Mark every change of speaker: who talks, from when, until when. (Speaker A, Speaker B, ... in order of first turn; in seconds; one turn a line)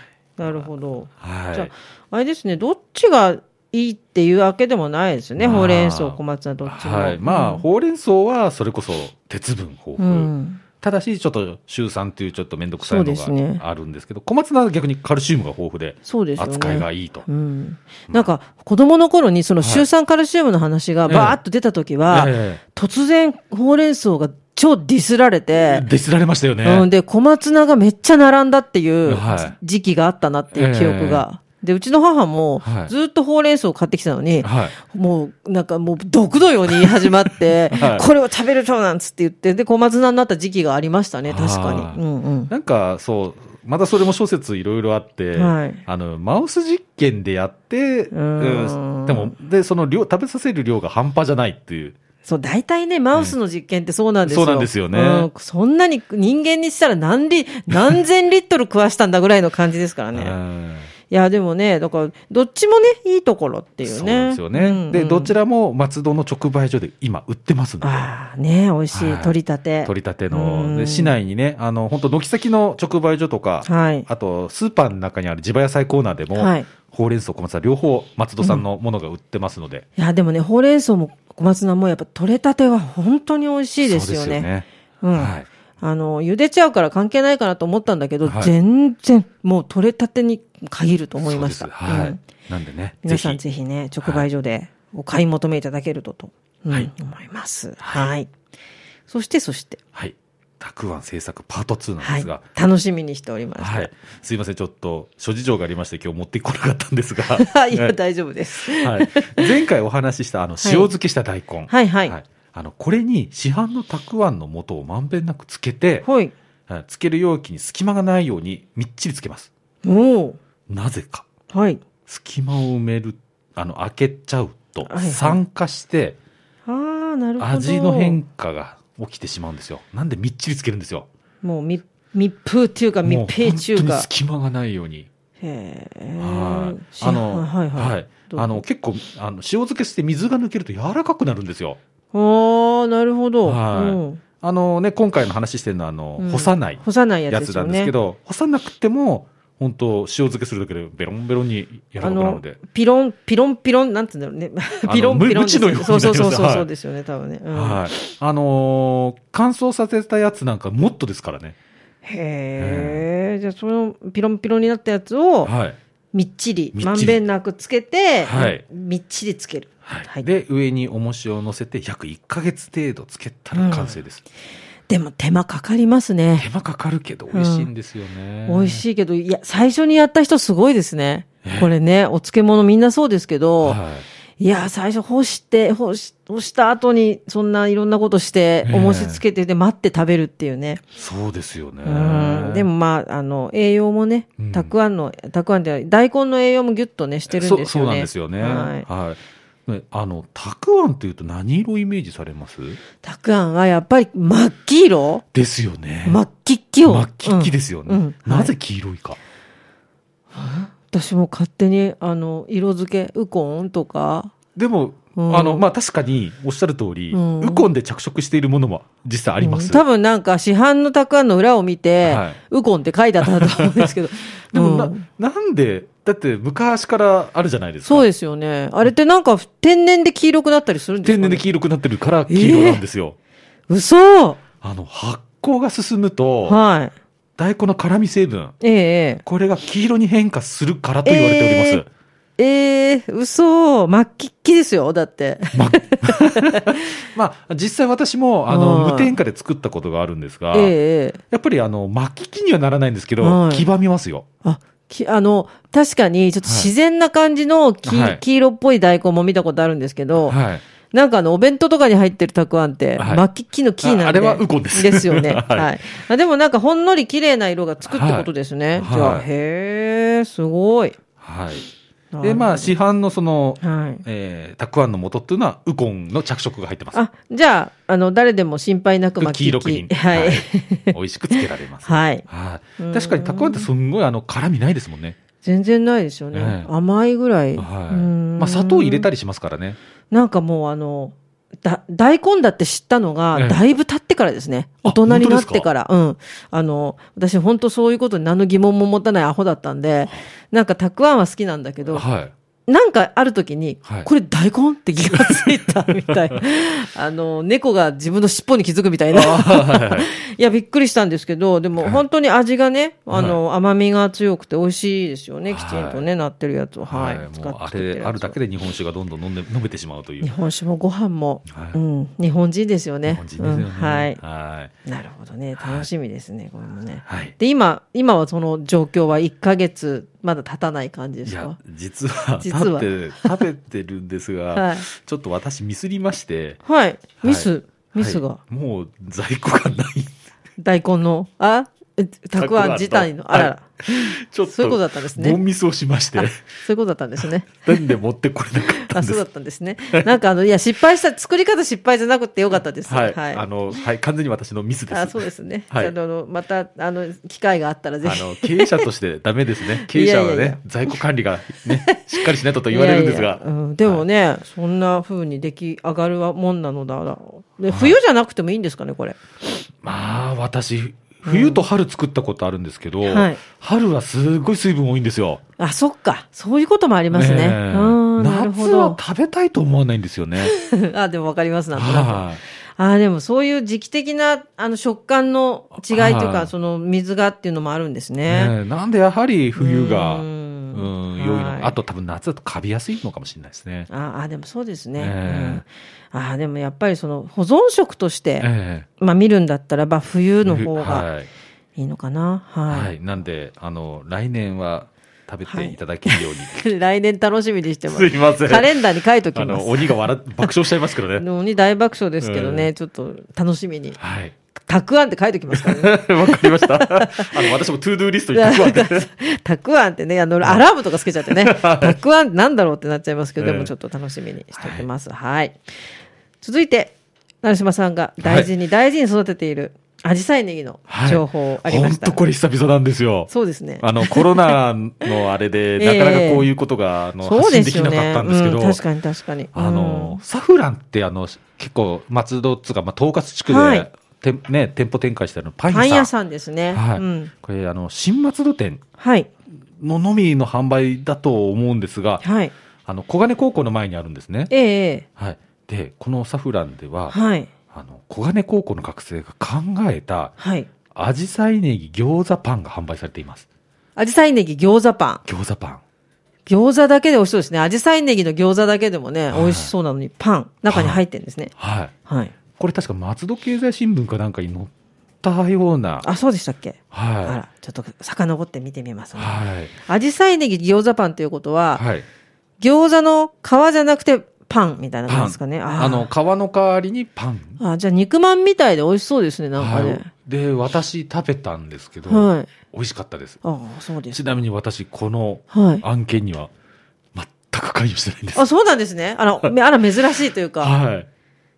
Speaker A: 0.4-7.6
Speaker B: 0.5-1.7
Speaker B: 5.4-17.3
Speaker A: 10.0-10.6
Speaker A: 12.8-13.6
Speaker A: 16.1-25.9
Speaker B: 19.6-19.9
Speaker B: 21.1-21.4
Speaker B: 22.1-22.6
Speaker B: 25.6-26.9
Speaker A: 26.6-42.5
Speaker B: 29.1-29.6
Speaker B: 30.5-31.2
Speaker B: 32.6-32.9
Speaker B: 34.4-34.8
Speaker B: 36.7-37.1
Speaker B: 37.7-38.1
Speaker B: 41.3-52.0
Speaker A: 45.4-45.8
Speaker A: 48.1-49.3
Speaker A: 52.2-60.4
Speaker B: 54.2-55.3
Speaker B: 60.1-60.9
Speaker A: 61.1-65.3
Speaker B: 63.8-68.1
Speaker A: 67.8-71.1
Speaker B: 68.9-79.9
Speaker A: 73.7-74.1
Speaker A: 76.3-76.7
Speaker A: 80.0-84.5
Speaker B: 83.8-85.5
Speaker A: 85.0-92.2
Speaker B: 88.2-88.5
Speaker B: 91.2-93.4
Speaker A: 93.0-98.3
Speaker B: 97.8-98.1
Speaker A: 99.1-99.8
Speaker B: 99.9-102.4
Speaker A: 102.0-103.9
Speaker B: 103.6-108.0
Speaker A: 107.3-109.5
Speaker B: 108.6-116.1
Speaker A: 110.6-110.9
Speaker A: 111.7-112.2
Speaker A: 116.0-116.3
Speaker B: 116.7-119.5
Speaker A: 119.8-120.4
Speaker B: 120.7-121.3
Speaker A: 121.5-121.8
Speaker B: 122.1-126.2
Speaker A: 124.8-125.4
Speaker A: 126.7-128.2
Speaker B: 127.4-131.1
Speaker A: 131.4-134.1
Speaker B: 133.0-135.1
Speaker A: 135.4-138.6
Speaker B: 136.2-141.8
Speaker A: 142.1-144.2
Speaker B: 143.4-152.6
Speaker A: 146.2-147.9
Speaker A: 152.0-157.8
Speaker B: 154.9-156.7
Speaker B: 157.5-161.6
Speaker A: 162.0-165.5
Speaker B: 162.6-163.0
Speaker B: 165.4-165.8
Speaker A: 166.1-170.3
Speaker B: 166.8-167.2
Speaker B: 168.2-168.6
Speaker B: 169.8-174.2
Speaker A: 173.5-174.0
Speaker A: 174.9-176.5
Speaker B: 176.4-178.8
Speaker A: 177.3-177.7
Speaker A: 178.5-183.8
Speaker B: 181.4-181.7
Speaker B: 183.6-184.1
Speaker A: 184.4-190.8
Speaker B: 188.7-189.2
Speaker B: 191.0-192.7
Speaker A: 191.8-198.9
Speaker B: 194.4-194.7
Speaker B: 197.3-202.8
Speaker A: 203.0-205.2
Speaker B: 205.3-206.2
Speaker A: 206.0-208.5
Speaker B: 206.8-209.2
Speaker A: 210.3-214.3
Speaker B: 214.6-219.8
Speaker A: 215.2-215.6
Speaker A: 217.1-217.7
Speaker A: 219.4-225.1
Speaker B: 222.0-222.4
Speaker B: 223.2-223.9
Speaker B: 224.5-228.1
Speaker A: 227.8-231.4
Speaker B: 231.0-233.2
Speaker A: 232.3-232.8
Speaker A: 233.7-234.4
Speaker B: 234.6-236.6
Speaker A: 236.4-236.9
Speaker B: 237.4-238.6
Speaker A: 238.6-239.2
Speaker B: 239.2-241.9
Speaker A: 241.1-241.8
Speaker A: 242.4-246.9
Speaker B: 245.5-250.7
Speaker A: 248.5-249.2
Speaker A: 250.5-251.2
Speaker B: 251.3-254.3
Speaker A: 253.2-253.7
Speaker A: 254.4-260.4
Speaker B: 256.4-256.7
Speaker B: 257.9-258.2
Speaker B: 260.3-260.6
Speaker A: 260.9-271.0
Speaker B: 263.0-263.2
Speaker B: 263.8-265.7
Speaker B: 267.9-269.3
Speaker B: 271.2-271.7
Speaker A: 272.1-272.7
Speaker B: 272.2-277.0
Speaker A: 273.6-274.0
Speaker A: 276.9-282.2
Speaker B: 279.2-285.2
Speaker A: 282.8-283.7
Speaker A: 285.4-289.1
Speaker B: 286.3-286.7
Speaker B: 287.6-289.8
Speaker A: 290.1-302.1
Speaker B: 293.3-293.6
Speaker B: 294.8-295.7
Speaker B: 301.9-302.3
Speaker A: 302.7-318.4
Speaker B: 303.9-304.1
Speaker B: 305.1-306.4
Speaker B: 309.1-310.1
Speaker B: 311.8-312.0
Speaker B: 313.1-313.4
Speaker B: 315.5-316.1
Speaker B: 316.9-320.3
Speaker A: 320.2-324.2
Speaker B: 321.5-321.8
Speaker B: 323.1-324.7
Speaker A: 324.9-331.6
Speaker B: 325.6-325.9
Speaker B: 327.1-327.3
Speaker B: 331.3-336.6
Speaker A: 332.4-333.4
Speaker A: 334.5-334.9
Speaker A: 336.6-338.4
Speaker B: 337.2-340.1
Speaker A: 340.6-345.4
Speaker B: 342.4-346.5
Speaker A: 346.2-347.9
Speaker B: 347.6-349.2
Speaker A: 348.8-353.4
Speaker B: 352.9-355.9
Speaker A: 354.9-358.9
Speaker B: 358.0-364.0
Speaker A: 359.8-360.6
Speaker A: 361.7-369.2
Speaker B: 367.7-368.0
Speaker B: 369.8-375.4
Speaker A: 371.3-371.6
Speaker A: 373.1-373.4
Speaker A: 375.6-379.0
Speaker B: 377.1-380.5
Speaker A: 380.4-388.5
Speaker B: 381.8-382.4
Speaker B: 385.9-386.5
Speaker B: 388.3-393.9
Speaker A: 389.6-391.8
Speaker A: 393.9-401.1
Speaker B: 395.0-395.6
Speaker B: 398.4-398.9
Speaker B: 400.4-401.3
Speaker A: 401.8-402.9
Speaker B: 402.7-406.6
Speaker A: 405.5-410.5
Speaker B: 407.9-411.2
Speaker A: 411.2-414.0
Speaker B: 412.2-412.7
Speaker B: 414.0-414.3
Speaker A: 414.7-417.6
Speaker B: 415.5-419.1
Speaker A: 418.3-425.6
Speaker B: 421.2-422.0
Speaker B: 423.4-423.7
Speaker B: 424.6-424.9
Speaker A: 426.4-432.2
Speaker B: 428.2-428.5
Speaker B: 430.9-438.8
Speaker A: 433.3-434.6
Speaker A: 435.8-436.5
Speaker A: 437.2-440.2
Speaker B: 439.5-446.1
Speaker A: 443.5-443.9
Speaker A: 445.7-447.3
Speaker B: 446.7-448.8
Speaker A: 449.0-449.3
Speaker B: 449.8-452.2
Speaker A: 452.2-452.5
Speaker B: 452.9-454.5
Speaker A: 454.5-455.1
Speaker B: 455.2-457.1
Speaker A: 457.1-457.5
Speaker B: 457.7-460.4
Speaker A: 460.4-460.7
Speaker B: 460.9-463.5
Speaker A: 464.0-465.2
Speaker B: 465.3-465.8
Speaker A: 466.5-471.5
Speaker B: 469.3-469.7
Speaker B: 470.7-471.0
Speaker B: 471.6-471.9
Speaker A: 472.1-472.3
Speaker B: 472.5-474.7
Speaker B: 475.2-476.1
Speaker A: 476.0-481.8
Speaker B: 476.9-477.4
Speaker B: 479.2-479.7
Speaker B: 481.8-482.1
Speaker A: 482.6-486.1
Speaker B: 485.1-487.6
Speaker A: 487.6-490.1
Speaker B: 489.6-493.4
Speaker A: 492.1-492.5
Speaker A: 493.4-494.2
Speaker B: 494.1-496.5
Speaker A: 495.5-495.8
Speaker B: 497.1-498.5
Speaker A: 498.3-500.8
Speaker B: 500.6-501.1